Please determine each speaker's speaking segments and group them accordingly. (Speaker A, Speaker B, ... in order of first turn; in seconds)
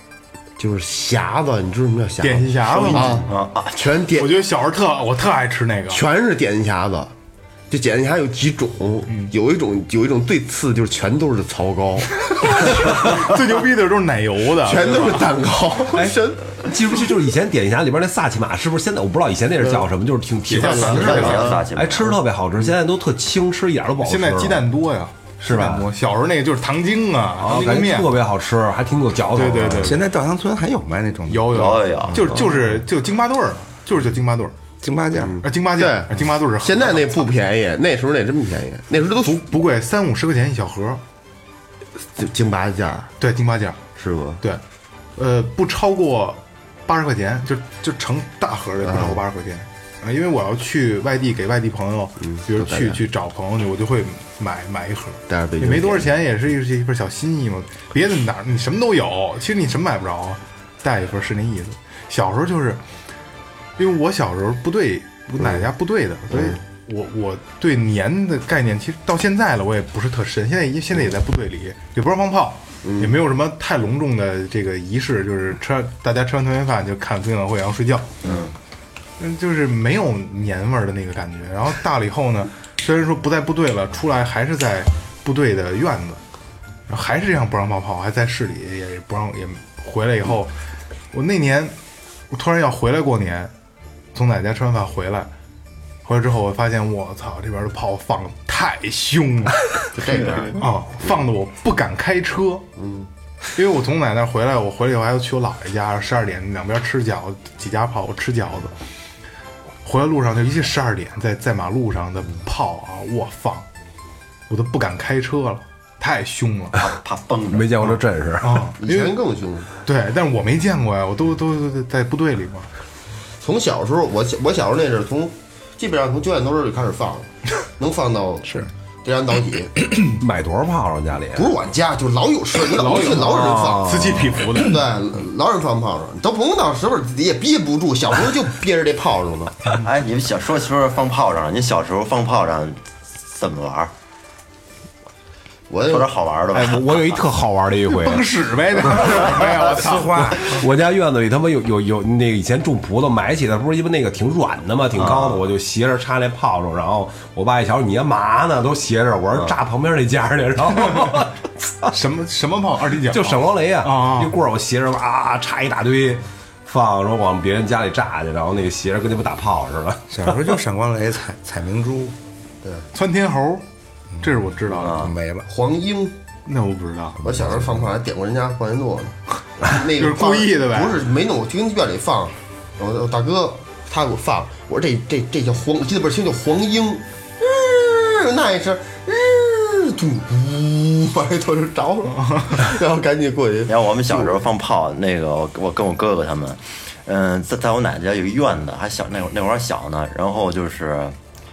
Speaker A: 0.6-4.4, 5.9-7.1, 7.7-13.0, 14.6-16.4, 20.6-21.6, 35.1-39.5, 42.2-43.1, 44.0-44.4, 48.8-49.2, 52.3-53.0, 55.3-56.1, 66.3-66.6, 72.8-73.2, 99.9-100.7, 102.8-103.1, 118.8-119.7, 123.4-129.7, 131.3-139.7, 145.7-146.1, 175.5-176.2, 177.2-194.4
Speaker B: 2.2-3.3, 4.1-6.0, 9.1-9.3, 12.2-15.3, 20.5-21.6, 24.0-28.1, 29.3-30.0, 31.3-34.5, 35.4-37.3, 39.2-41.0, 43.2-43.8, 45.2-62.8, 63.8-78.2, 79.2-86.2, 86.9-90.5, 91.1-91.8, 92.3-93.5, 94.1-95.3, 96.0-102.7, 103.5-108.7, 109.8-113.7, 114.5-116.8, 117.8-119.2, 119.8-122.7, 132.7-134.8, 147.9-150.6, 160.9-161.2, 161.9-164.4, 172.9-173.6, 174.2-175.0, 176.5-177.2, 179.7-181.0, 192.2-192.6
Speaker C: 2.9-3.9, 20.7-22.2, 31.5-32.4, 78.2-78.5, 116.8-117.8, 139.7-143.9, 145.9-147.2, 155.0-155.4, 174.7-175.2, 193.7-201.2
Speaker D: 15.9-24.7, 25.4-25.9, 27.4-30.1, 117.5-118.7, 129.9-131.5, 133.2-134.4, 146.5-148.3, 148.8-149.3, 150.3-161.9, 163.0-170.6
Speaker E: 29.8-31.7, 34.8-35.4, 149.4-150.5, 170.1-172.2, 174.9-175.5